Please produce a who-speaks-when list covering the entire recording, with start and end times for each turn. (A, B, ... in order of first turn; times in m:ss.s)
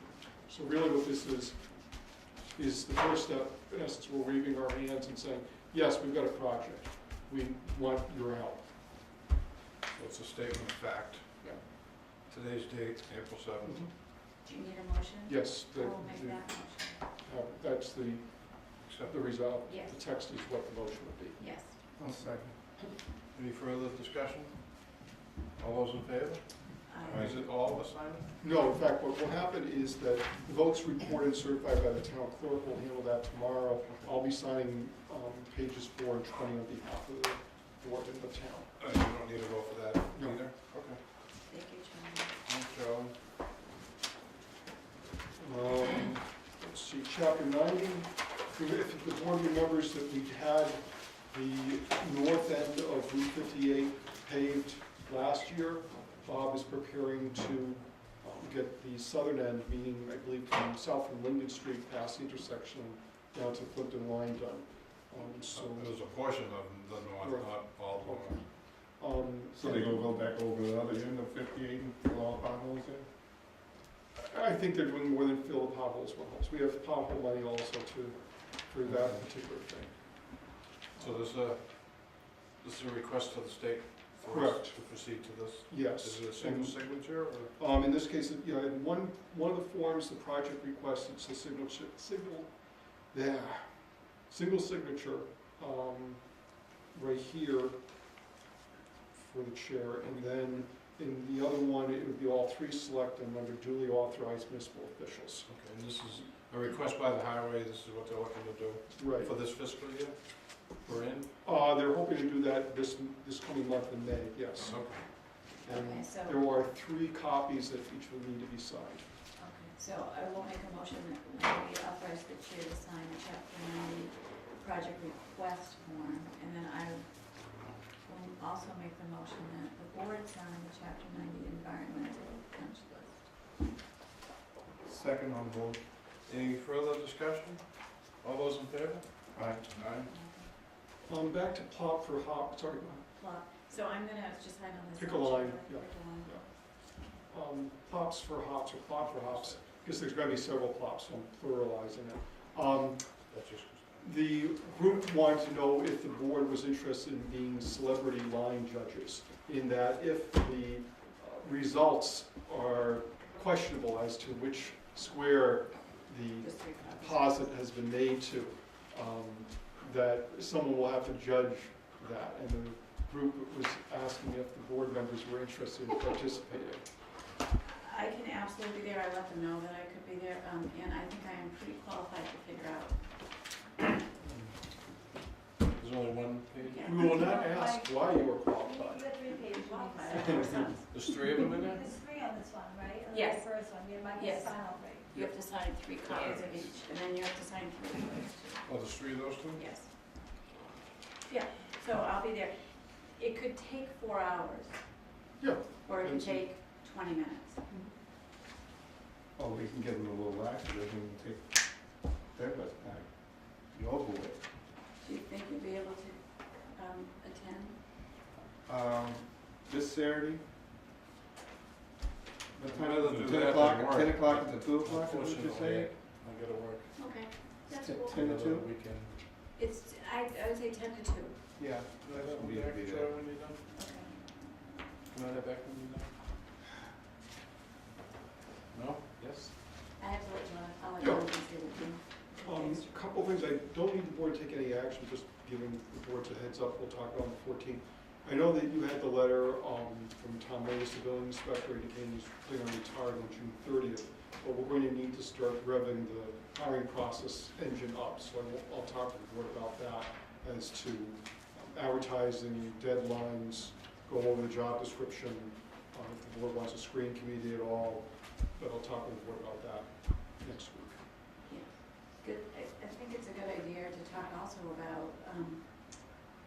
0:00.5-0:01.7 A
0:02.5-0:08.7 A
0:09.9-0:13.9 B
0:14.4-0:17.0 C
0:15.3-0:16.5 A
0:17.2-0:21.4 A
0:18.8-0:19.2 B
0:19.6-0:20.0 C
0:21.4-0:21.8 C
0:22.0-0:22.6 D
0:23.3-0:24.6 B
0:25.6-0:28.3 B
0:26.9-0:27.3 C
0:28.4-0:38.7 A
0:38.8-0:41.0 B
0:40.1-0:40.4 A
0:41.5-0:42.3 C
0:42.5-0:43.1 B
0:45.4-1:06.0 A
1:05.5-1:08.4 B
1:07.2-1:10.0 A
1:09.5-1:13.1 D
1:14.1-1:21.2 A
1:21.0-1:27.5 B
1:24.2-1:24.8 A
1:25.7-1:32.5 A
1:33.1-1:37.8 A
1:39.1-1:45.5 A
1:45.4-1:51.3 B
1:49.0-1:49.3 A
1:51.4-1:59.0 A
1:54.6-1:55.2 B
1:55.6-1:56.4 C
1:59.4-2:13.3 C
2:14.8-2:15.8 D
2:16.2-2:20.1 B
2:19.3-2:19.7 D
2:20.0-2:20.5 C
2:21.0-2:23.1 A
2:23.2-2:26.5 C
2:25.0-2:33.2 A
2:29.0-2:29.7 B
2:33.3-2:34.0 B
2:34.0-2:56.8 A
2:46.4-2:47.4 C
2:57.6-3:03.0 C
3:05.7-3:06.9 B
3:06.7-3:07.2 C
3:06.8-3:09.1 A
3:06.9-3:10.6 E
3:09.3-3:11.1 C
3:10.3-3:10.6 A
3:10.9-3:12.0 B
3:11.4-3:15.1 E
3:13.1-3:18.7 C
3:16.1-3:16.6 B
3:18.6-3:19.6 B
3:19.5-3:19.9 C
3:21.3-3:25.3 C
3:25.4-3:26.4 A
3:25.8-3:27.6 C
3:29.4-3:31.6 D
3:32.3-3:34.4 D
3:35.0-3:37.8 C
3:38.6-3:40.4 D
3:42.5-3:45.9 D
3:42.6-3:47.3 B
3:46.9-3:48.2 C
3:47.7-3:48.7 D
3:48.1-3:49.2 B
3:49.6-3:51.4 C
3:51.6-3:53.1 D
3:52.0-3:53.6 B
3:53.7-3:54.3 C
3:55.1-3:56.2 B
3:58.7-3:59.6 B
4:00.0-4:03.0 C
4:01.0-4:01.3 A
4:02.4-4:31.0 A
4:31.5-4:35.7 C